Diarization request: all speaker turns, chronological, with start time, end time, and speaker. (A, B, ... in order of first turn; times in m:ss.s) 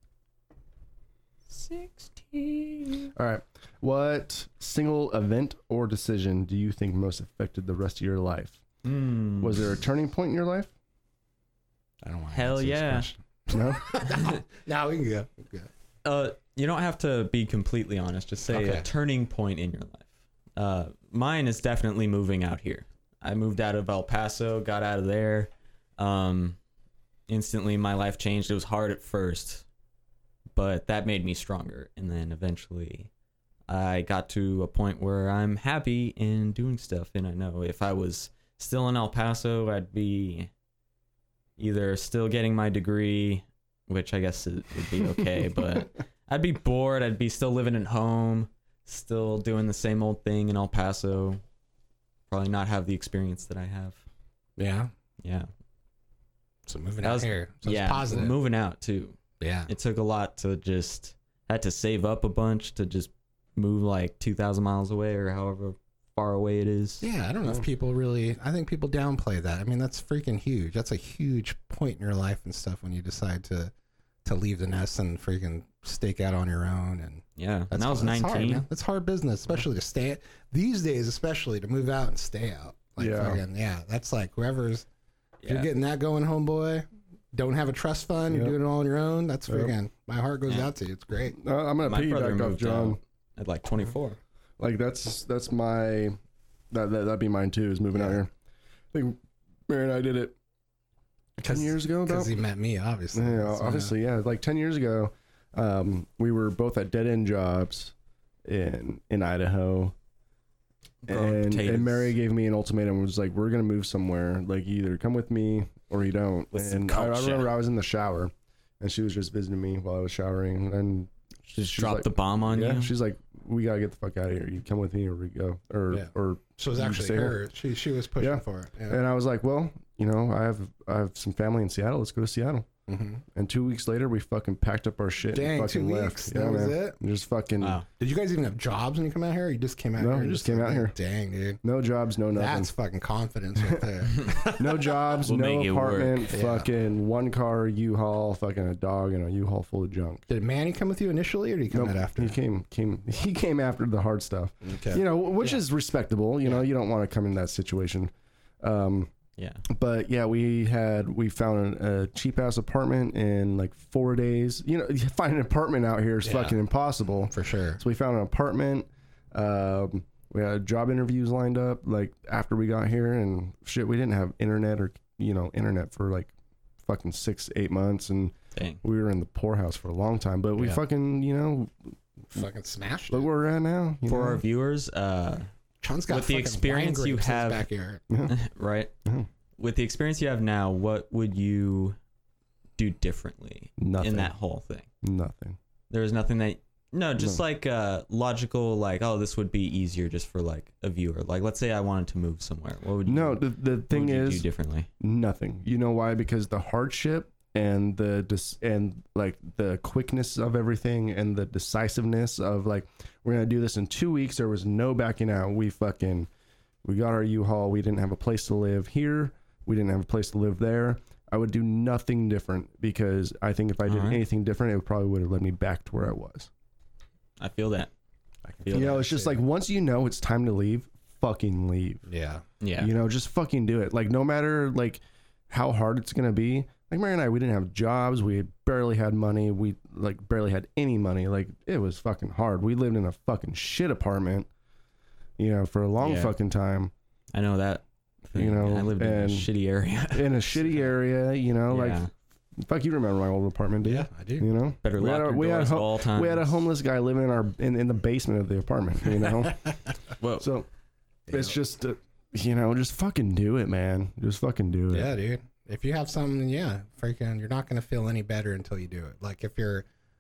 0:01.5-0:03.1 A
0:03.2-0:08.6 B
0:08.8-0:09.7 A
0:09.4-0:10.7 B
0:12.0-0:15.7 C
0:12.3-0:13.1 A
0:13.5-0:13.9 B
0:14.1-0:14.4 A
0:16.0-0:26.6 A
0:18.5-0:18.9 C
0:27.3-0:29.6 A
0:30.6-0:33.1 A
0:33.7-0:40.5 A
0:41.6-0:51.4 A
0:52.3-0:54.0 A
0:54.6-0:54.9 C
0:55.2-0:55.5 A
0:56.7-0:58.3 C
0:57.0-1:07.0 A
0:59.4-0:59.7 C
1:07.0-1:13.7 C
1:14.2-1:24.9 C
1:17.4-1:18.6 A
1:23.0-1:23.4 B
1:25.4-1:25.7 A
1:25.4-1:31.4 C
1:28.3-1:28.6 B
1:29.5-1:29.7 B
1:31.4-1:33.0 B
1:31.8-1:34.2 A
1:34.6-1:36.2 B
1:36.7-1:38.3 B
1:38.9-1:40.4 B
1:41.4-1:42.3 B
1:41.4-1:43.9 C
1:43.1-1:47.9 B
1:48.4-1:49.9 B
1:51.0-1:52.2 A
1:51.1-2:01.1 B
1:56.5-1:57.5 A
2:01.5-2:02.9 A
2:01.7-2:07.4 B
2:05.9-2:09.0 C
2:08.2-2:12.7 B
2:12.9-2:13.2 C
2:13.3-2:17.8 B
2:15.3-2:17.0 C
2:17.6-2:17.9 A
2:18.0-2:21.6 C
2:20.0-2:20.9 B
2:21.6-2:22.7 B
2:22.3-2:25.2 C
2:24.6-2:30.2 B
2:25.2-2:26.3 A
2:26.3-2:26.7 C
2:30.3-2:32.4 C
2:31.7-2:39.1 B
2:34.6-2:35.6 C
2:39.4-2:39.6 A
2:39.7-2:56.3 B
2:46.2-2:46.6 C
2:47.3-2:47.8 C
2:56.8-3:01.9 B
2:58.6-2:58.8 A
3:02.3-3:03.3 C
3:03.1-3:04.4 B
3:04.1-3:05.5 A
3:05.8-3:08.0 C
3:06.1-3:07.7 A
3:08.3-3:08.9 A
3:09.6-3:12.0 A
3:12.8-3:14.9 A
3:13.8-3:14.3 B
3:15.0-3:15.6 B
3:15.9-3:24.9 A
3:23.1-3:24.5 B
3:25.0-3:36.3 B
3:36.8-3:46.5 B
3:43.8-3:44.2 A
3:47.4-3:47.9 A
3:48.5-3:49.4 C
3:48.6-3:49.1 A
3:48.7-3:52.1 B
3:52.1-3:52.4 C
3:52.6-3:52.9 A
3:52.8-4:04.5 B
4:05.4-4:06.9 B
4:06.0-4:06.3 A
4:07.3-4:10.9 A
4:08.4-4:09.5 B
4:10.1-4:12.0 B
4:11.7-4:12.1 A
4:12.6-4:19.7 B
4:13.8-4:14.5 C
4:14.8-4:16.6 A
4:20.2-4:20.5 A
4:20.4-4:20.7 B
4:21.3-4:21.6 C
4:21.3-4:25.1 B
4:24.9-4:29.9 C